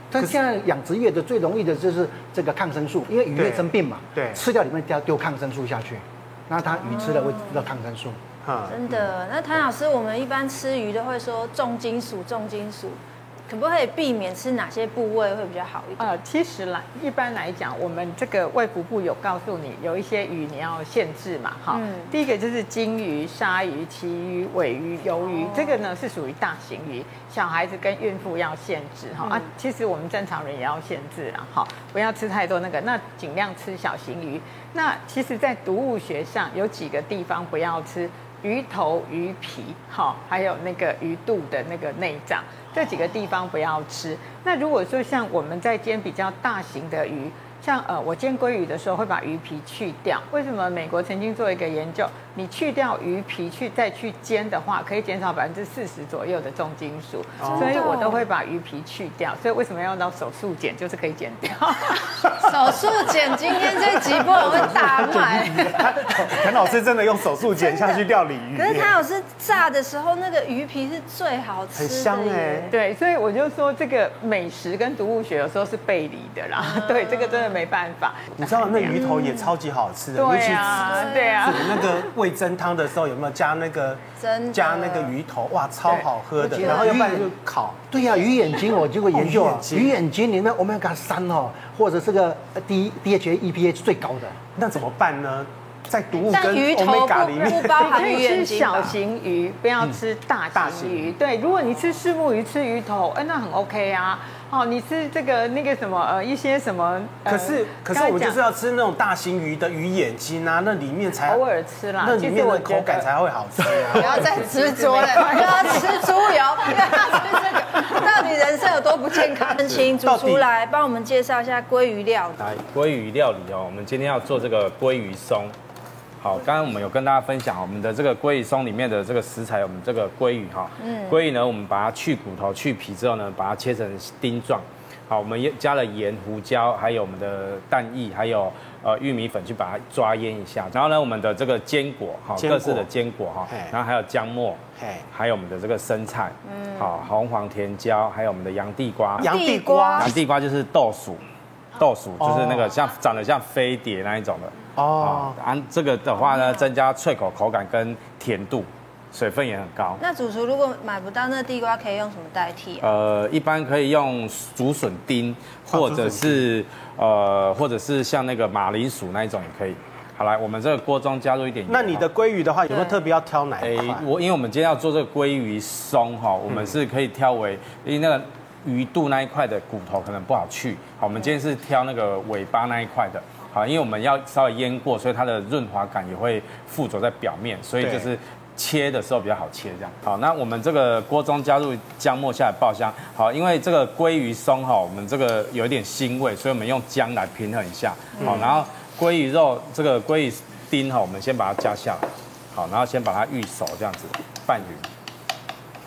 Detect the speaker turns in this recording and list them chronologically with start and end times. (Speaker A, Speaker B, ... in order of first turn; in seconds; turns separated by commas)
Speaker A: 0.1-8.2, Speaker B: 3.3-4.4, Speaker C: 6.8-7.7, Speaker B: 8.4-9.1, Speaker C: 8.7-16.1, Speaker D: 16.0-62.2, Speaker C: 21.7-22.1, Speaker C: 25.3-25.8, Speaker B: 57.4-57.8, Speaker C: 57.4-58.2, Speaker C: 62.3-66.5, Speaker B: 63.8-69.0, Speaker C: 67.6-68.0, Speaker C: 68.5-72.7, Speaker B: 71.8-72.7, Speaker D: 72.7-79.1, Speaker C: 76.6-77.6, Speaker B: 78.4-87.9, Speaker C: 78.9-79.5, Speaker D: 80.1-82.1, Speaker C: 80.7-81.8, Speaker C: 84.2-85.1, Speaker A: 86.4-87.3, Speaker C: 86.6-86.9, Speaker A: 87.9-94.4, Speaker B: 89.1-90.0, Speaker B: 94.5-98.1, Speaker C: 96.3-99.0, Speaker D: 97.7-108.4, Speaker B: 100.5-101.1, Speaker B: 107.2-111.4, Speaker D: 111.2-113.1, Speaker B: 112.0-114.5, Speaker D: 113.7-116.1, Speaker C: 113.9-122.4, Speaker B: 119.8-120.4, Speaker E: 122.4-125.5, Speaker E: 126.2-149.3, Speaker C: 130.8-131.2, Speaker B: 142.4-142.9, Speaker B: 143.5-143.8, Speaker B: 144.8-145.1, Speaker C: 146.4-147.0, Speaker B: 149.2-150.1, Speaker C: 149.2-150.1, Speaker E: 150.0-151.2, Speaker E: 151.8-160.0, Speaker B: 152.2-152.8, Speaker B: 154.8-155.4, Speaker C: 156.3-156.7, Speaker C: 160.0-162.8, Speaker E: 162.8-172.0, Speaker B: 165.7-166.5, Speaker B: 171.7-174.1, Speaker C: 172.7-173.0, Speaker E: 173.6-204.8, Speaker B: 187.8-188.1, Speaker B: 198.2-198.5